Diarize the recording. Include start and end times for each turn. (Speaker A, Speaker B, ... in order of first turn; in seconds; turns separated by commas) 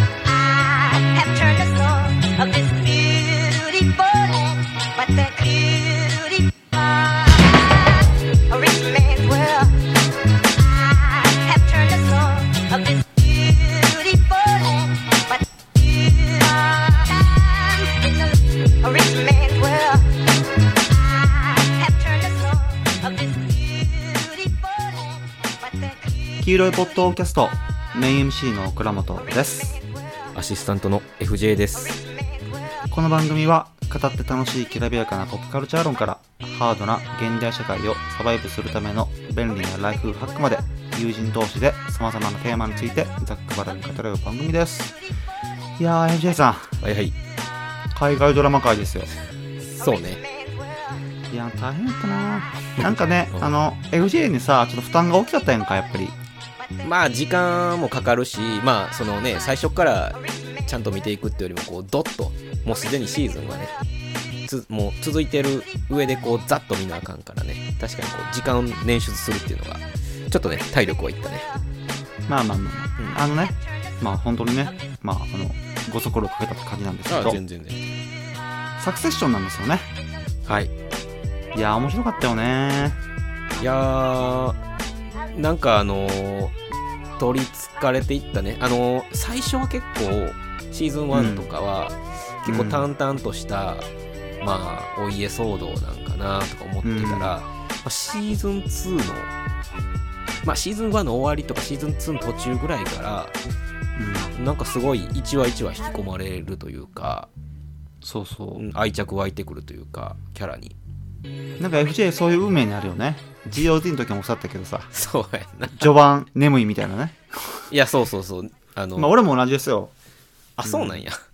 Speaker A: 0.2-26.7, Speaker B: 26.4-29.8, Speaker C: 30.3-32.0, Speaker A: 31.8-32.9, Speaker B: 32.9-44.9, Speaker B: 45.8-46.8, Speaker C: 46.8-47.1, Speaker B: 47.9-49.1, Speaker C: 49.7-50.2, Speaker A: 49.8-51.0, Speaker B: 51.3-56.2, Speaker C: 52.8-53.6, Speaker C: 56.8-63.7, Speaker A: 60.2-60.7, Speaker C: 64.5-71.5, Speaker B: 72.3-77.4, Speaker C: 77.1-78.0, Speaker B: 78.8-79.9, Speaker C: 80.5-80.7, Speaker B: 81.5-83.0, Speaker C: 83.6-84.6, Speaker C: 85.2-86.5, Speaker C: 87.2-93.9, Speaker B: 91.1-91.5, Speaker B: 92.5-92.9, Speaker C: 94.4-99.3, Speaker B: 96.8-97.3, Speaker C: 100.4-103.3, Speaker B: 104.0-104.3, Speaker C: 104.3-107.3, Speaker B: 108.0-108.6, Speaker C: 108.6-110.8, Speaker B: 111.6-114.9, Speaker C: 114.9-116.0, Speaker B: 115.7-117.7, Speaker C: 117.7-119.1, Speaker B: 119.0-119.9, Speaker C: 120.6-121.2, Speaker B: 120.6-121.0